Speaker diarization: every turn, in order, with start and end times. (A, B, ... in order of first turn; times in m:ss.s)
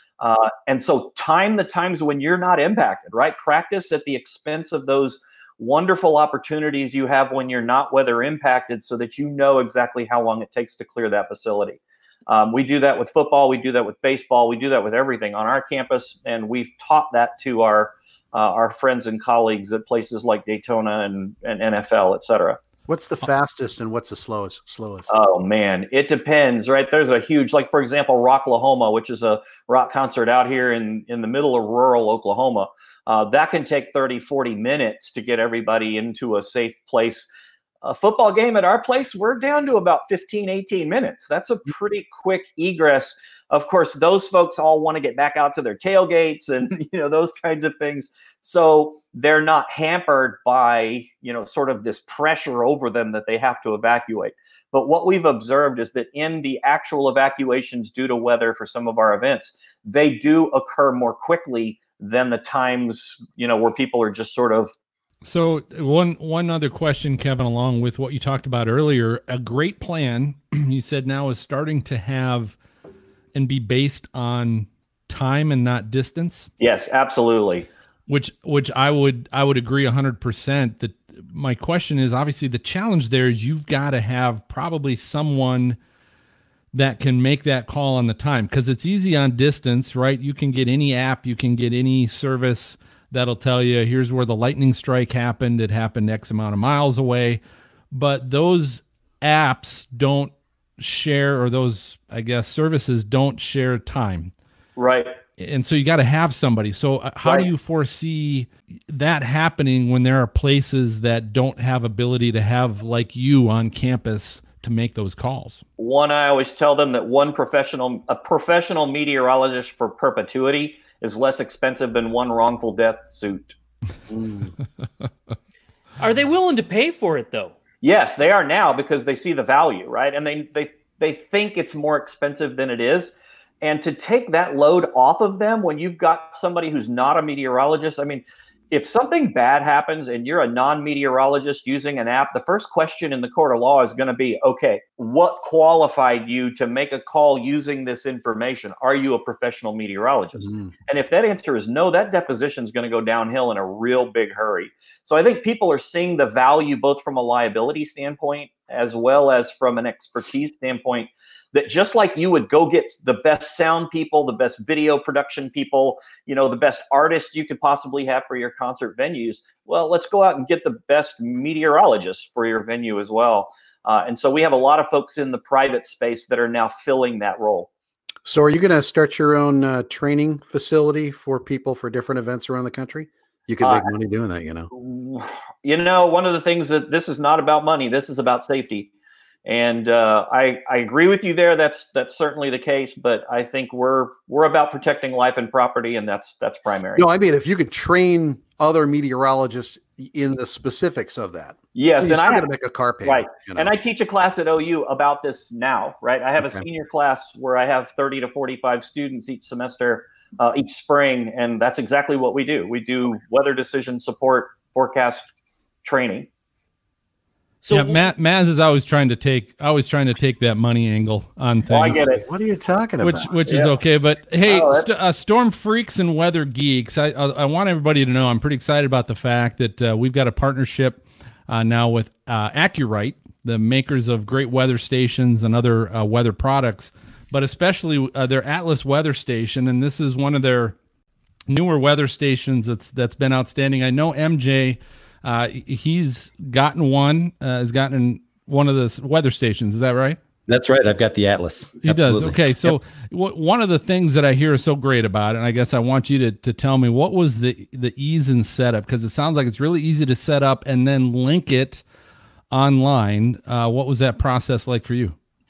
0:00.2-0:22.6 A
0:22.9-0:25.1 B
0:25.1-0:37.3 A
0:37.8-1:04.7 A
1:05.2-1:12.6 C
1:13.3-1:16.5 C
1:16.6-1:17.7 A
1:18.1-1:25.8 C
1:26.7-1:37.4 C
1:37.9-1:44.3 C
1:44.8-1:45.2 A
1:45.4-1:55.6 C
1:47.2-1:47.5 A
1:55.8-2:03.5 A
2:04.1-2:04.4 B
2:06.0-2:07.6 D
2:07.8-2:57.7 A
2:58.2-3:04.7 B
3:03.6-3:03.9 A
3:04.7-3:08.9 A
3:09.4-3:17.1 A
3:17.0-3:23.7 B
3:21.7-3:22.5 A
3:23.0-3:35.3 A
3:35.8-3:36.3 A
3:37.6-3:38.0 D
3:37.7-3:42.0 C
3:41.7-3:42.2 A
3:42.1-3:43.4 B
3:43.0-4:00.7 C
3:43.5-3:43.7 A
3:44.4-3:44.9 A
4:01.5-4:10.2 C
4:10.5-4:12.8 E
4:11.8-4:21.8 C
4:22.5-4:25.1 C